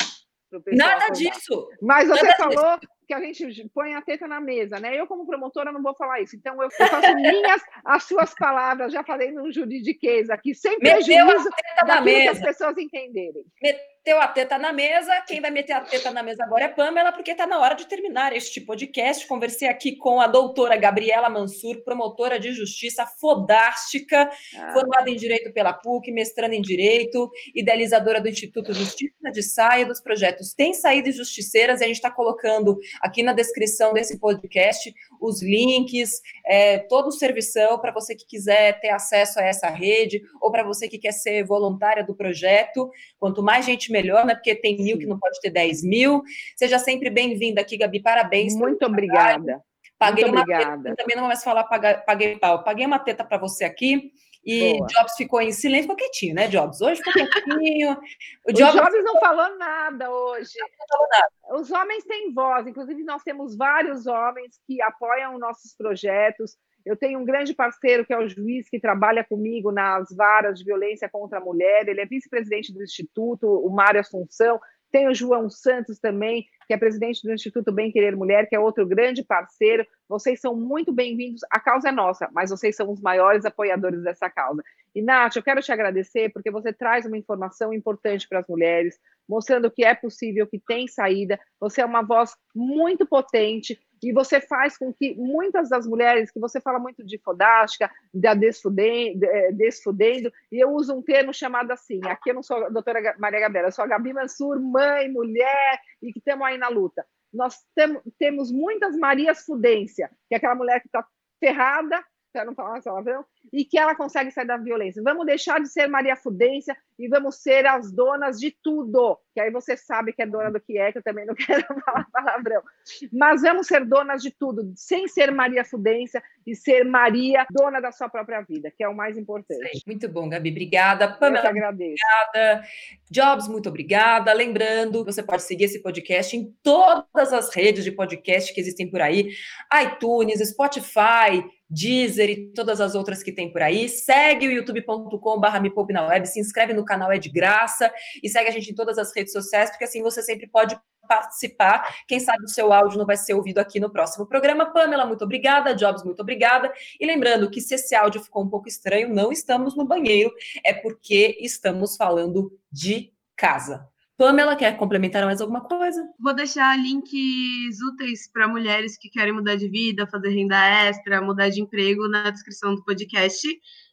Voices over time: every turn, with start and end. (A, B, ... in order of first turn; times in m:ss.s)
0:00.5-0:13.5 A
0:00.7-0:02.6 B
0:06.8-0:07.3 B
0:10.8-0:12.5 B
0:13.6-0:59.2 B
0:24.5-0:24.9 A
0:44.8-0:45.1 A
0:48.4-0:51.0 A
0:54.6-0:54.9 A
0:58.5-1:00.7 A
1:00.7-1:01.3 B
1:01.5-2:09.8 A
2:09.5-2:46.1 B
2:11.2-2:12.0 A
2:46.2-2:53.6 C